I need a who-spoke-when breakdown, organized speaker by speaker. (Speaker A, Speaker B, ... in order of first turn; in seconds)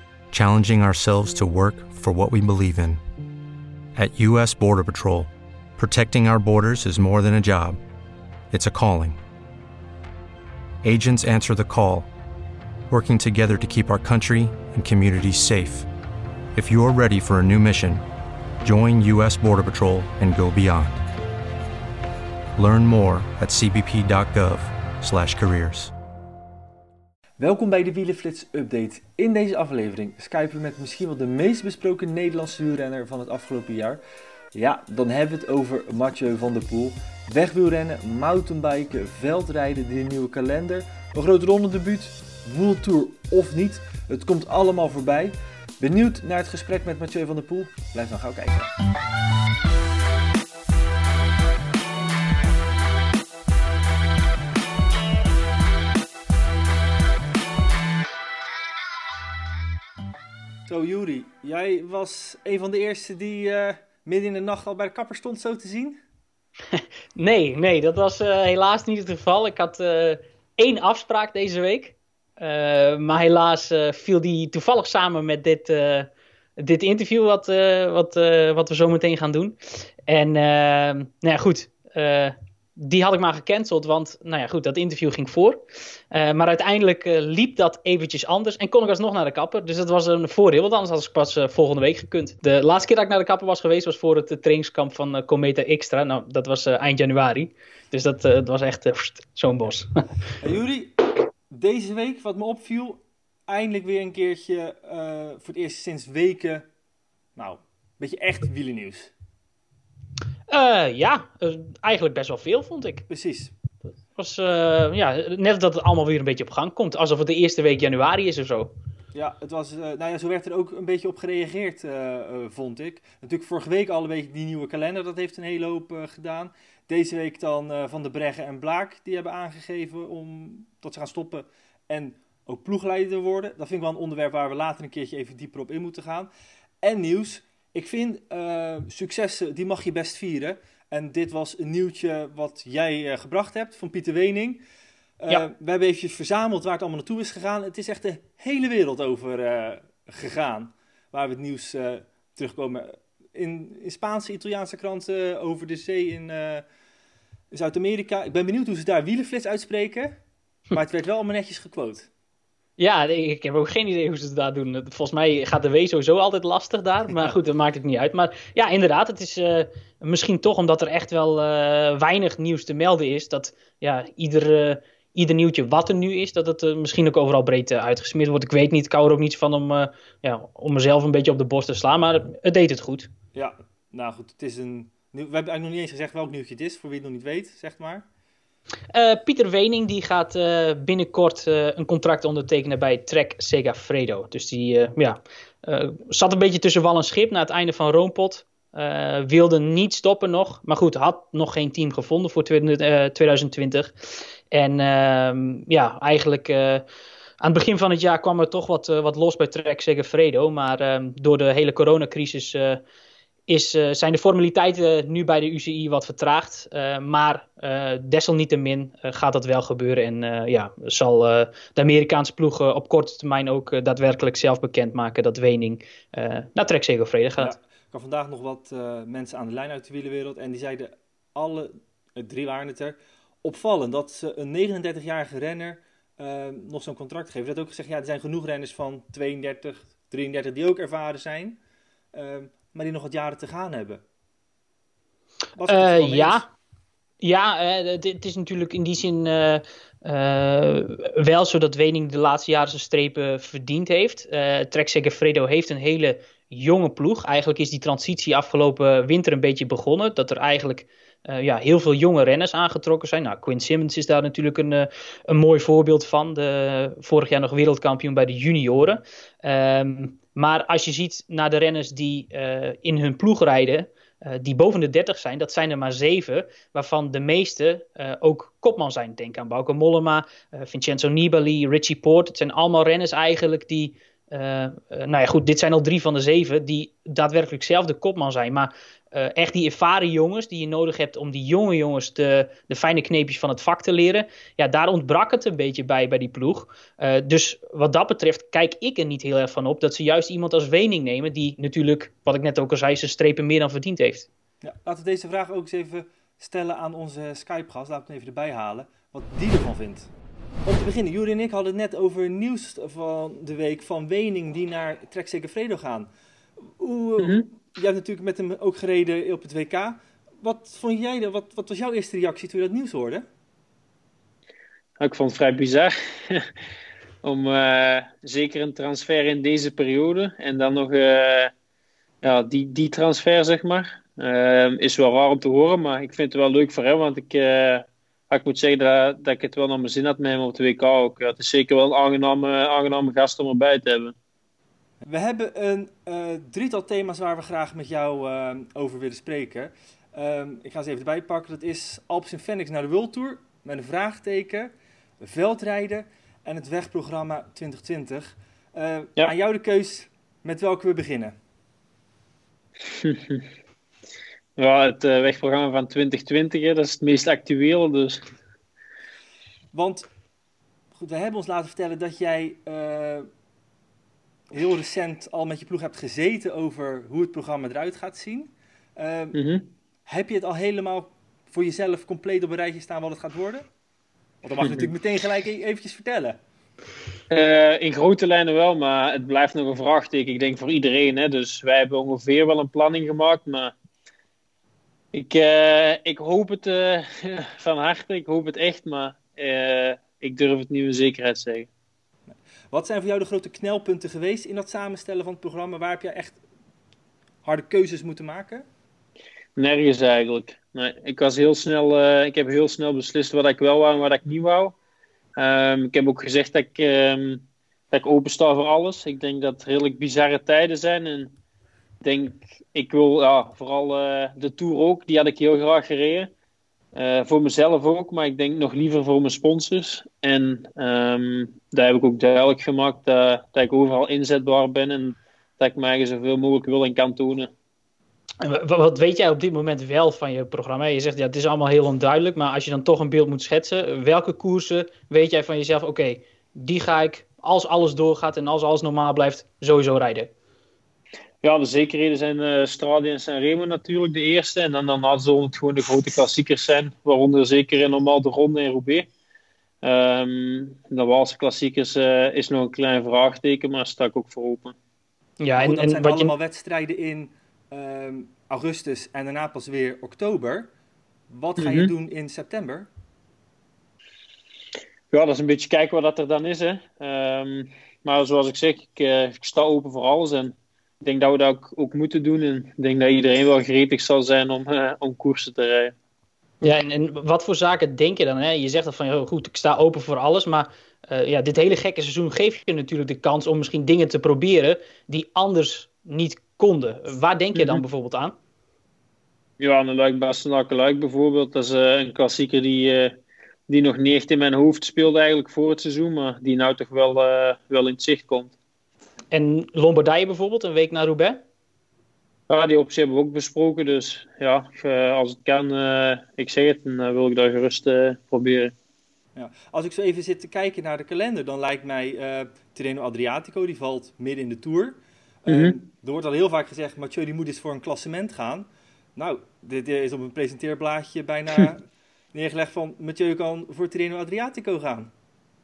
Speaker A: 0.3-3.0, 4.0-7.8, 8.5-9.2, 10.8-12.1, 12.9-15.9, 16.6-18.0, 18.6-21.0, 22.6-25.9
Speaker B: 27.4-34.0, 34.5-48.7, 60.7-66.0, 100.4-101.0, 101.5-106.7, 107.4-109.1, 113.1-113.5, 119.1-136.3, 136.8-144.6, 145.2-156.6, 157.5-160.2, 160.7-162.1, 183.3-188.1, 227.4-241.6, 242.1-244.0, 245.6-246.4, 304.6-310.1, 310.7-316.1, 316.6-323.3, 345.0-361.4, 369.7-370.1, 371.0-373.3, 374.5-379.4, 380.1-383.7, 384.4-386.4, 402.3-406.4, 407.4-408.7, 465.6-470.7, 471.3-472.9, 519.4-535.1
Speaker C: 66.7-79.6, 80.1-99.9, 110.5-113.1, 114.2-118.7, 162.8-183.1, 188.9-206.8, 207.4-212.8, 213.5-227.5, 245.7-246.5, 247.2-304.3, 438.4-450.3, 465.4-466.3, 486.6-498.4, 509.3-511.4
Speaker D: 317.2-317.5, 325.0-326.5, 327.2-331.5, 332.2-344.1, 362.9-363.4, 364.6-368.2, 379.4-379.7, 384.6-384.9, 387.3-393.7, 395.1-401.7, 409.6-414.8, 415.4-421.3, 422.0-426.3, 426.9-437.5, 451.4-459.1, 459.8-464.8, 471.6-471.9, 475.1-485.9, 497.6-497.8, 499.6-503.2, 503.7-508.5, 512.5-518.7, 525.5-525.8